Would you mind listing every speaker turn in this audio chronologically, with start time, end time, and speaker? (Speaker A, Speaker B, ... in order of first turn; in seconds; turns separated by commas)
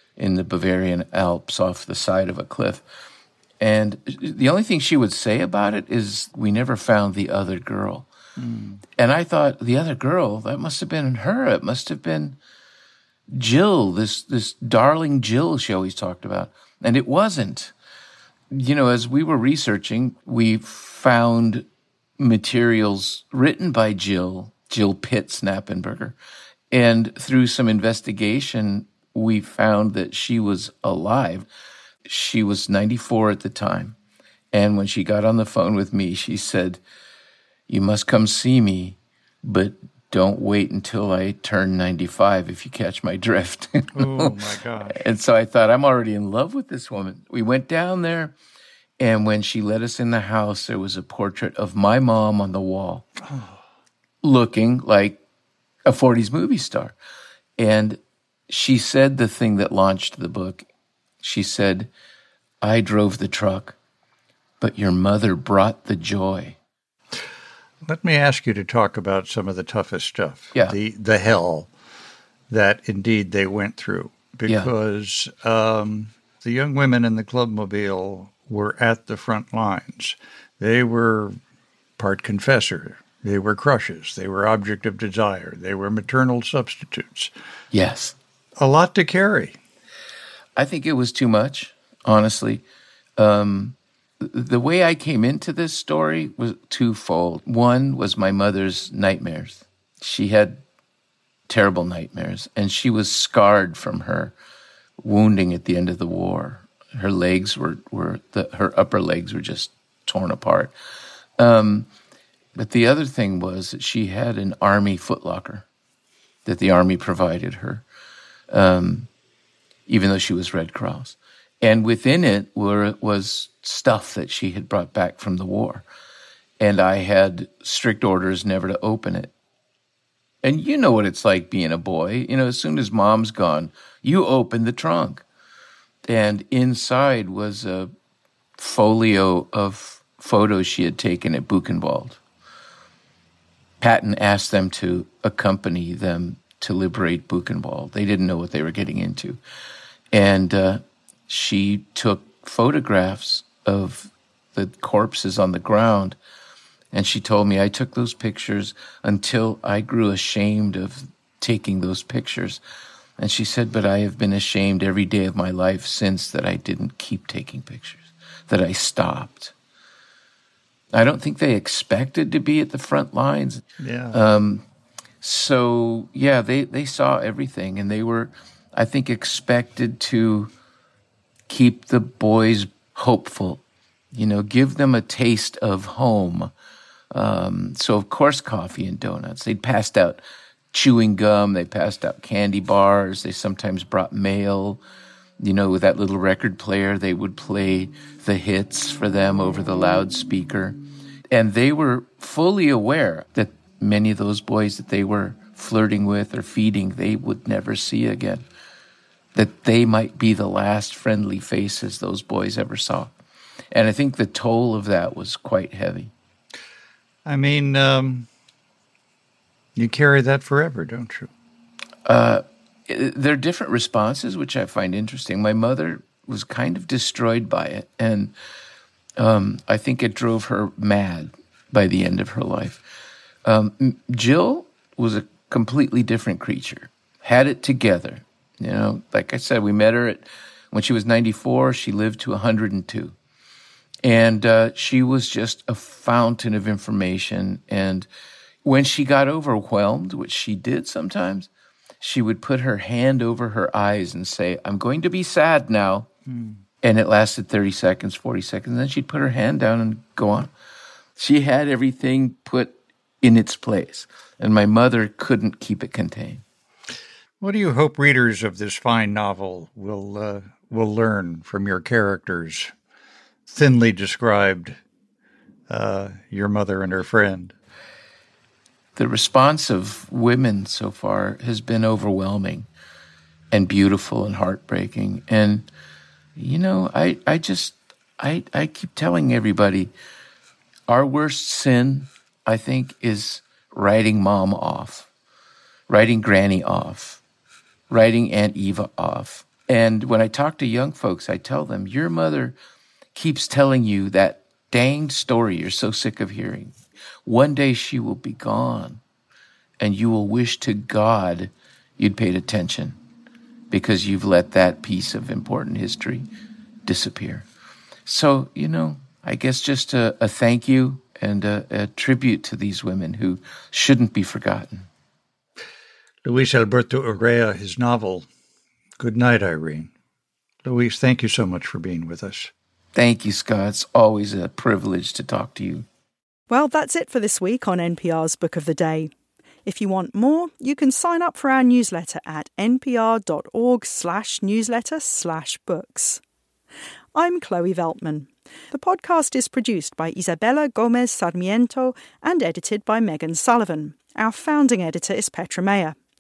Speaker A: 0.2-2.8, Speaker A: 3.6-8.1, Speaker B: 8.4-8.8, Speaker A: 8.9-12.4, Speaker A: 13.3-17.7, Speaker A: 18.5-21.6, Speaker A: 22.2-26.2, Speaker A: 26.7-31.5, Speaker A: 32.0-34.0, Speaker A: 34.5-36.8, Speaker A: 37.7-44.3, Speaker B: 43.9-45.0, Speaker A: 44.9-48.4, Speaker A: 49.0-53.0, Speaker B: 53.2-53.6, Speaker A: 54.2-55.2, Speaker A: 55.9-56.9, Speaker A: 57.6-60.6, Speaker A: 61.2-61.9, Speaker A: 62.6-63.8, Speaker A: 64.6-66.6, Speaker B: 67.8-71.7, Speaker B: 72.5-81.3, Speaker B: 82.0-87.3, Speaker A: 87.7-88.1, Speaker B: 88.6-89.5, Speaker A: 90.5-92.6, Speaker A: 93.2-100.6, Speaker A: 101.5-104.3, Speaker A: 105.0-110.7, Speaker A: 111.4-111.9, Speaker A: 112.5-115.7, Speaker A: 116.4-117.8, Speaker A: 118.5-119.1, Speaker A: 119.9-125.8, Speaker A: 126.6-129.3, Speaker A: 130.4-135.2, Speaker A: 136.1-137.9, Speaker A: 138.6-142.2, Speaker A: 143.8-149.4, Speaker A: 150.1-156.2, Speaker A: 156.9-162.6, Speaker A: 163.2-169.5, Speaker A: 170.9-174.6, Speaker B: 173.8-174.2, Speaker A: 175.2-180.5, Speaker A: 181.5-183.6, Speaker A: 184.1-186.5, Speaker A: 187.1-190.2, Speaker A: 190.7-194.8, Speaker A: 195.4-200.8, Speaker A: 201.3-208.4, Speaker A: 209.3-213.1, Speaker A: 213.7-216.1, Speaker B: 217.2-218.3, Speaker B: 219.8-221.3, Speaker A: 222.1-228.3, Speaker A: 229.2-232.8, Speaker A: 233.4-243.1, Speaker A: 244.0-248.1, Speaker A: 248.6-251.5, Speaker A: 252.0-256.1, Speaker A: 256.8-260.5, Speaker A: 261.2-266.4, Speaker B: 267.4-272.7, Speaker B: 273.5-274.8, Speaker B: 275.7-277.5, Speaker A: 278.9-282.7, Speaker A: 283.5-285.7, Speaker A: 286.4-289.9, Speaker A: 290.9-295.1, Speaker A: 295.9-297.2, Speaker A: 297.9-302.6, Speaker A: 303.1-306.7, Speaker A: 307.2-309.0, Speaker A: 309.8-313.0, Speaker A: 313.7-316.3, Speaker A: 316.9-317.4, Speaker A: 318.1-324.9, Speaker B: 326.2-328.2, Speaker B: 329.0-329.9, Speaker B: 330.6-332.5, Speaker A: 332.9-335.9, Speaker C: 336.5-339.1, Speaker C: 339.6-346.2, Speaker C: 347.1-356.0